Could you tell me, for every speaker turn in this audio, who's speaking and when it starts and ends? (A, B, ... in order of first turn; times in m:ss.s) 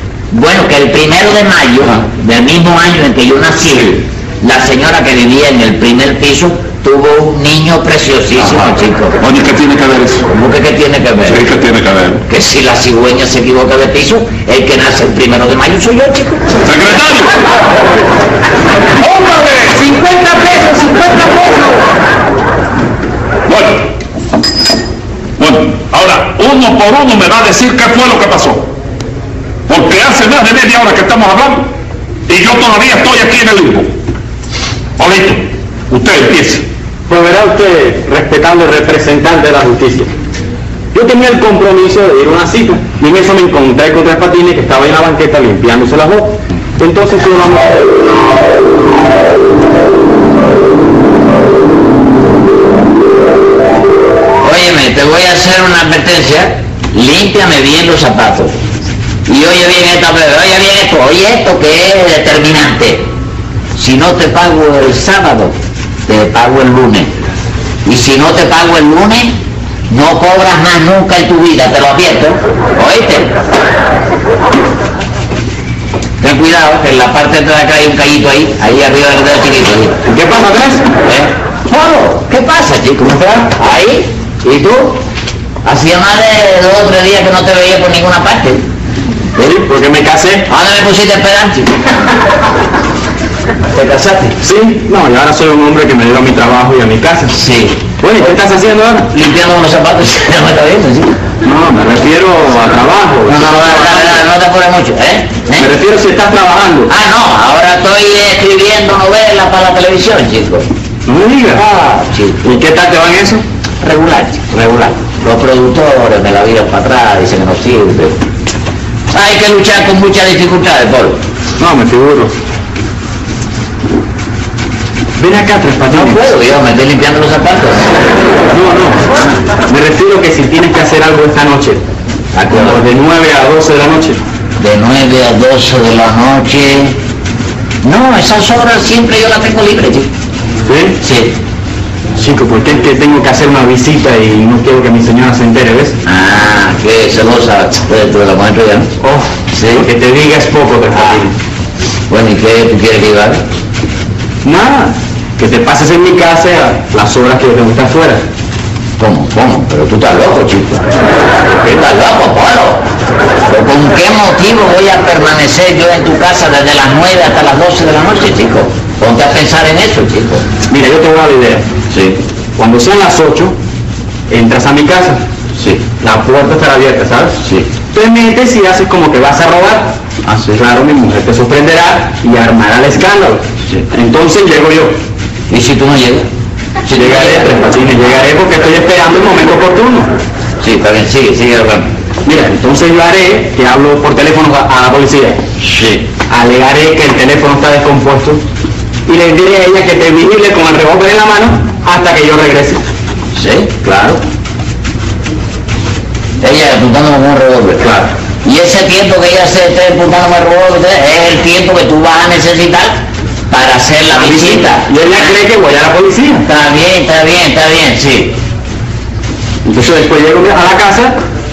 0:00.3-0:09.2 A
0:08.4-0:10.2 B
0:10.2-0:11.4 A
0:11.2-0:12.2 B
0:12.3-0:16.5 A
0:16.6-0:17.4 B
0:19.0-0:21.9 C
0:23.5-0:23.9 B
0:25.4-0:28.7 B
0:29.7-0:31.7 B
0:32.3-0:33.9 B
0:35.0-0:36.6 B
0:37.1-0:40.1 D
0:40.9-0:47.8 D
0:54.4-0:58.5 A
0:59.3-1:03.1 A
1:03.8-1:05.5 A
1:06.1-1:07.1 A
1:07.8-1:09.3 A
1:09.9-1:13.3 A
1:16.2-1:20.0 A
1:20.1-1:20.8 D
1:21.0-1:25.0 A
1:23.1-1:23.5 D
1:25.6-1:28.6 A
1:29.4-1:30.5 D
1:30.5-1:31.7 A
1:33.7-1:34.4 A
1:34.4-1:37.3 D
1:37.3-1:38.4 A
1:38.0-1:39.1 D
1:39.1-1:41.1 A
1:41.4-1:44.2 D
1:43.3-1:45.7 A
1:45.6-1:46.9 D
1:46.9-1:50.7 A
1:51.0-1:51.6 D
1:51.6-1:52.4 A
1:52.4-1:53.4 D
1:53.8-1:58.2 A
1:59.1-2:01.2 A
2:01.6-2:02.3 D
2:05.2-2:06.2 D
2:05.9-2:08.1 A
2:08.5-2:09.0 D
2:09.6-2:11.8 D
2:12.3-2:12.8 A
2:12.5-2:14.2 D
2:14.6-2:17.0 A
2:17.8-2:20.1 A
2:20.6-2:21.0 D
2:21.0-2:21.4 A
2:22.1-2:26.0 D
2:26.0-2:28.9 A
2:29.0-2:31.3 D
2:29.5-2:29.9 A
2:30.9-2:31.2 A
2:32.1-2:33.4 A
2:34.4-2:38.2 D
2:39.0-2:40.9 A
2:41.6-2:42.8 A
2:43.5-2:50.4 A
2:50.7-2:51.7 D
2:51.9-2:52.2 A
2:52.6-2:53.6 D
2:54.3-2:55.2 D
2:56.0-2:57.4 D
2:57.4-2:57.7 A
2:57.9-3:05.0 D
3:00.3-3:00.5 A
3:05.5-3:06.3 A
3:06.8-3:07.6 A
3:06.9-3:10.1 D
3:10.6-3:11.9 A
3:12.2-3:15.4 D
3:15.6-3:16.0 A
3:16.3-3:18.4 D
3:19.1-3:22.8 D
3:23.3-3:24.2 A
3:26.4-3:27.9 A
3:27.8-3:28.1 D
3:28.4-3:33.0 A
3:33.5-3:34.9 A
3:34.1-3:36.4 D
3:36.4-3:38.4 A
3:39.6-3:41.2 D